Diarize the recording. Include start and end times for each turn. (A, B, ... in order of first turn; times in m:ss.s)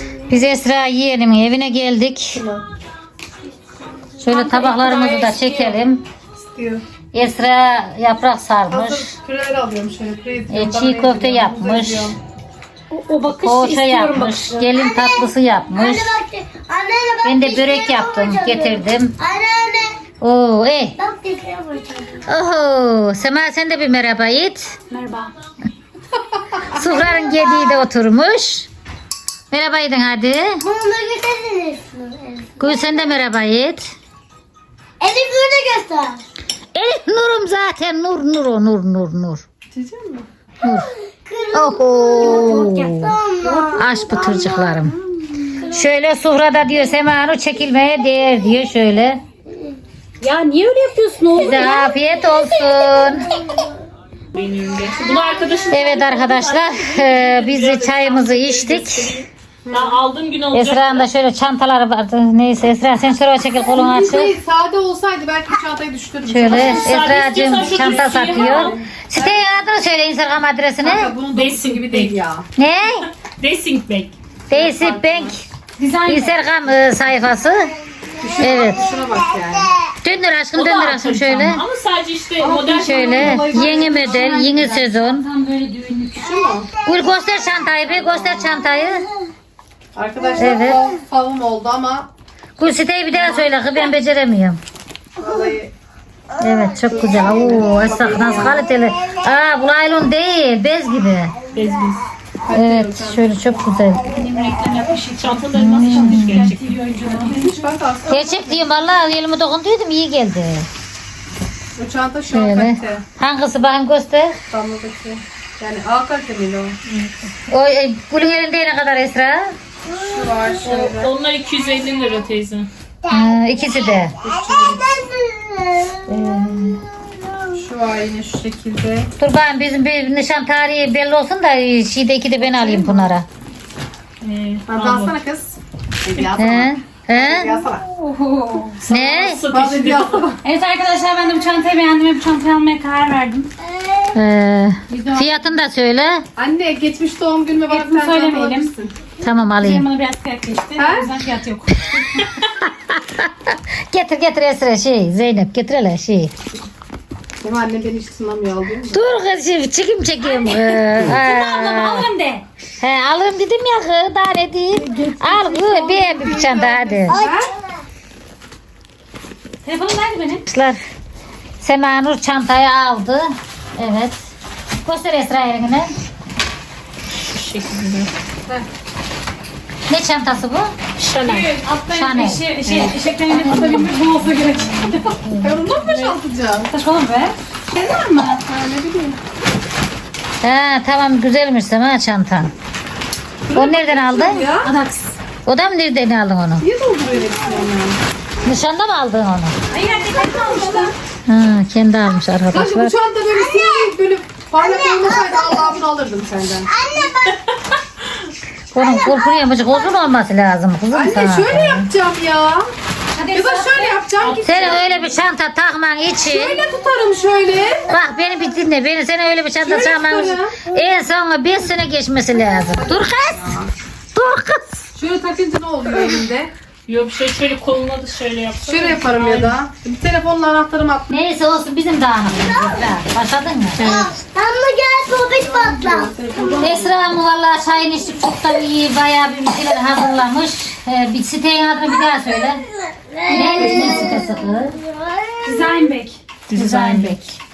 0:00.3-0:02.4 A
0:02.3-0:02.6 B
0:04.2-0:06.0 A
0:04.2-0:05.8 C
0:06.5-0:06.8 B
0:07.1-0:09.0 A
0:08.7-0:12.2 B
0:10.5-0:12.1 A
0:12.9-0:14.7 C
0:13.3-0:16.2 A
0:14.8-0:15.1 D
0:15.9-0:18.4 D
0:17.2-0:19.2 A
0:19.2-0:19.9 D
0:20.2-0:21.0 A
0:21.0-0:22.0 D
0:22.2-0:24.8 A
0:24.9-0:25.3 C
0:26.6-0:28.7 A
0:29.5-0:30.6 A
0:30.7-0:32.4 D
0:32.6-0:33.9 A
0:35.0-0:36.2 D
0:36.7-0:39.4 A
0:39.7-0:40.3 B
0:40.6-0:40.9 A
0:41.3-0:42.0 D
0:41.5-0:43.2 A
0:42.2-0:43.8 C
0:43.5-0:44.0 B
0:43.7-0:45.0 A
0:45.2-0:45.6 B
0:45.6-0:49.2 A
0:50.2-0:51.7 C
0:51.4-0:53.4 A
0:54.4-1:01.1 E
0:55.7-0:59.2 A
0:59.7-1:00.0 B
1:00.5-1:04.4 A
1:03.7-1:09.4 B
1:06.3-1:11.2 A
1:06.5-1:08.8 E
1:10.8-1:12.5 B
1:11.3-1:12.2 E
1:12.6-1:13.1 A
1:13.4-1:14.1 E
1:14.5-1:15.4 A
1:14.5-1:15.4 B
1:15.8-1:16.4 C
1:16.1-1:17.7 A
1:18.2-1:19.7 B
1:18.4-1:18.8 A
1:20.0-1:21.6 A
1:20.6-1:23.6 E
1:22.4-1:24.3 B
1:22.8-1:25.3 A
1:23.3-1:26.3 C
1:26.2-1:26.7 B
1:26.8-1:29.1 A
1:30.0-1:32.1 B
1:30.4-1:30.9 A
1:32.6-1:34.6 A
1:35.2-1:35.7 B
1:36.4-1:41.4 A
1:36.9-1:38.6 B
1:41.5-1:42.0 E
1:42.5-1:43.3 B
1:42.5-1:44.2 A
1:44.1-1:47.6 C
1:45.2-1:46.8 E
1:45.6-1:46.5 A
1:47.1-1:48.7 B
1:48.1-1:50.7 A
1:51.8-1:53.0 B
1:52.3-1:54.4 A
1:54.5-1:56.8 B
1:56.9-1:57.2 E
1:57.5-1:59.5 A
1:59.9-2:01.1 B
2:00.6-2:02.7 E
2:03.1-2:04.2 A
2:04.2-2:05.1 B
2:05.1-2:05.7 D
2:06.1-2:06.8 A
2:07.6-2:09.1 B
2:09.2-2:13.3 A
2:12.5-2:13.1 B
2:14.2-2:15.1 E
2:14.7-2:17.8 B
2:16.4-2:17.5 A
2:17.9-2:18.8 C
2:18.8-2:20.4 B
2:18.9-2:19.4 A
2:19.0-2:20.3 E
2:20.4-2:23.5 C
2:24.1-2:26.2 A
2:24.9-2:25.4 B
2:26.4-2:28.9 B
2:27.7-2:28.7 C
2:29.2-2:29.9 A
2:29.6-2:32.3 C
2:30.8-2:31.1 B
2:31.9-2:36.3 A
2:37.4-2:39.0 B
2:38.9-2:42.1 A
2:40.2-2:42.4 C
2:42.8-2:47.2 A
2:44.9-2:47.5 B
2:47.1-2:47.4 C
2:49.6-2:50.4 C
2:50.5-2:50.8 A
2:51.6-2:54.2 A
2:54.8-2:55.9 A
2:57.3-2:58.1 E
2:59.9-3:00.7 A
3:01.0-3:01.6 E
3:01.4-3:05.0 C
3:01.9-3:02.6 A
3:02.6-3:03.0 E
3:02.8-3:03.8 B
3:03.4-3:05.6 A
3:05.4-3:06.7 B
3:06.6-3:07.4 C
3:07.7-3:09.2 B
3:10.4-3:12.5 A
3:13.5-3:14.7 B
3:13.5-3:14.5 A
3:14.6-3:15.1 C
3:15.5-3:16.7 A
3:16.6-3:18.0 B
3:18.4-3:19.6 A
3:19.7-3:20.9 C
3:20.3-3:20.9 B
3:21.3-3:23.0 A
3:22.5-3:26.7 B
3:28.7-3:31.9 A
3:30.9-3:32.7 B
3:33.2-3:34.0 C
3:33.3-3:34.9 B
3:34.2-3:35.0 E
3:34.4-3:36.6 A
3:36.3-3:37.9 B
3:37.9-3:43.5 A
3:39.6-3:40.7 B
3:42.8-3:43.7 B
3:44.1-3:44.8 A
3:45.0-3:46.5 B
3:46.9-3:49.6 E
3:48.6-3:51.2 B
3:51.1-3:54.0 A
3:53.8-3:54.2 E
3:54.2-3:56.1 D
3:55.4-3:57.1 B
3:56.6-4:02.6 A
4:03.3-4:04.1 B
4:03.3-4:04.8 A
4:03.6-4:04.0 D
4:05.1-4:05.4 D
4:05.4-4:06.2 C
4:06.5-4:07.2 E
4:06.5-4:07.4 A